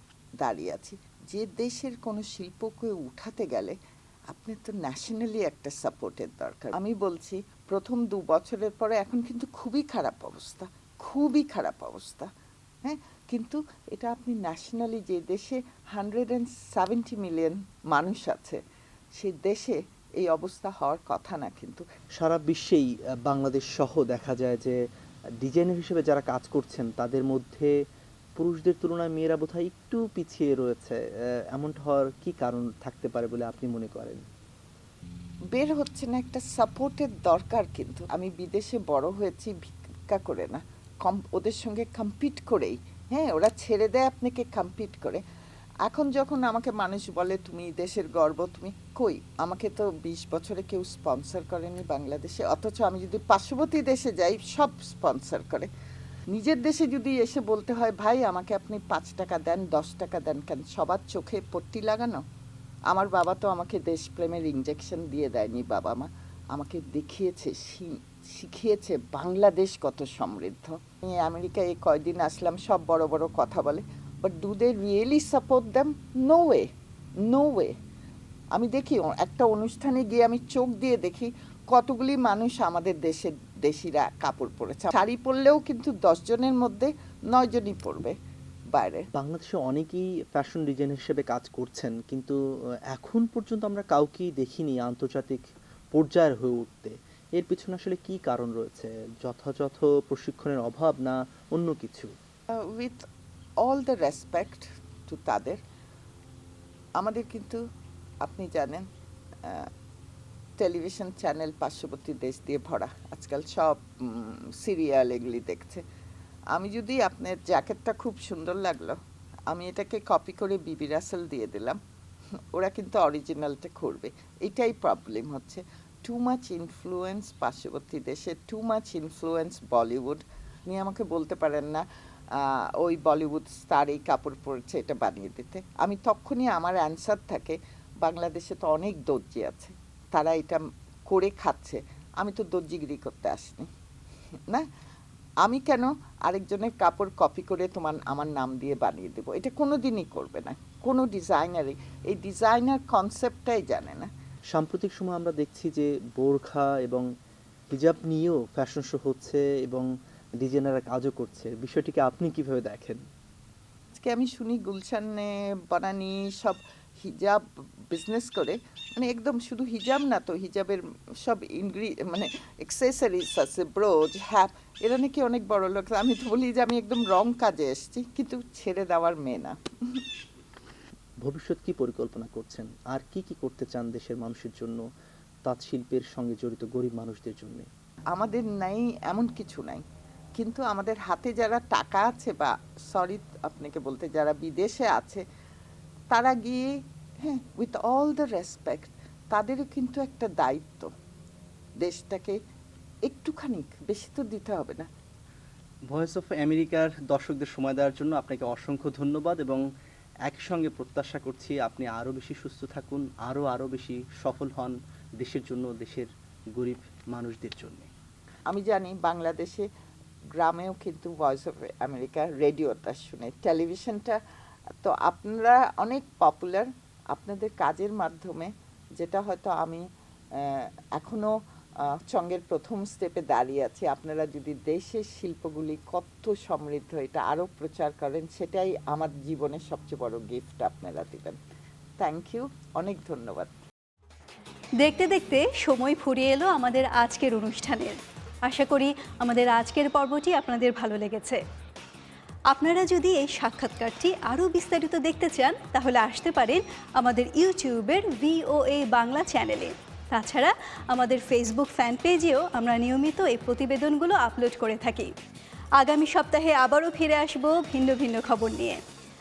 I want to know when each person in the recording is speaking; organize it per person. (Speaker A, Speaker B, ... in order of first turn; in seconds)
Speaker A: 0.4-3.8, 4.3-12.3, 12.8-18.6, 19.2-21.8, 35.5-45.2, 45.9-55.7, 56.3-62.2, 62.9-76.7, 77.2-77.7, 78.5-88.1, 88.7-89.1, 102.8-103.0, 103.6-105.6, 107.0-107.6, 108.2-108.8, 110.6-115.8, 116.5-119.0, 119.5-121.8, 122.5-131.8, 132.4-143.7, 145.4-154.1, 163.9-180.0, 188.1-189.8, 190.4-195.2, 196.1-196.7, 197.2-200.9, 201.8-202.3, 203.1-204.9, 218.5-219.7, 220.4-224.2, 224.8-229.8, 230.4-231.3, 232.1-241.4, 242.0-243.5
Speaker B: 22.1-24.8, 25.4-27.7, 28.4-31.0, 31.5-34.2, 89.1-92.4, 92.9-95.4, 95.9-102.1, 154.5-157.1, 157.7-159.9, 160.4-163.0, 181.2-184.8, 185.4-187.7, 205.9-209.6, 210.2-217.9
Speaker C: 244.8-251.4, 252.5-265.1, 265.8-268.8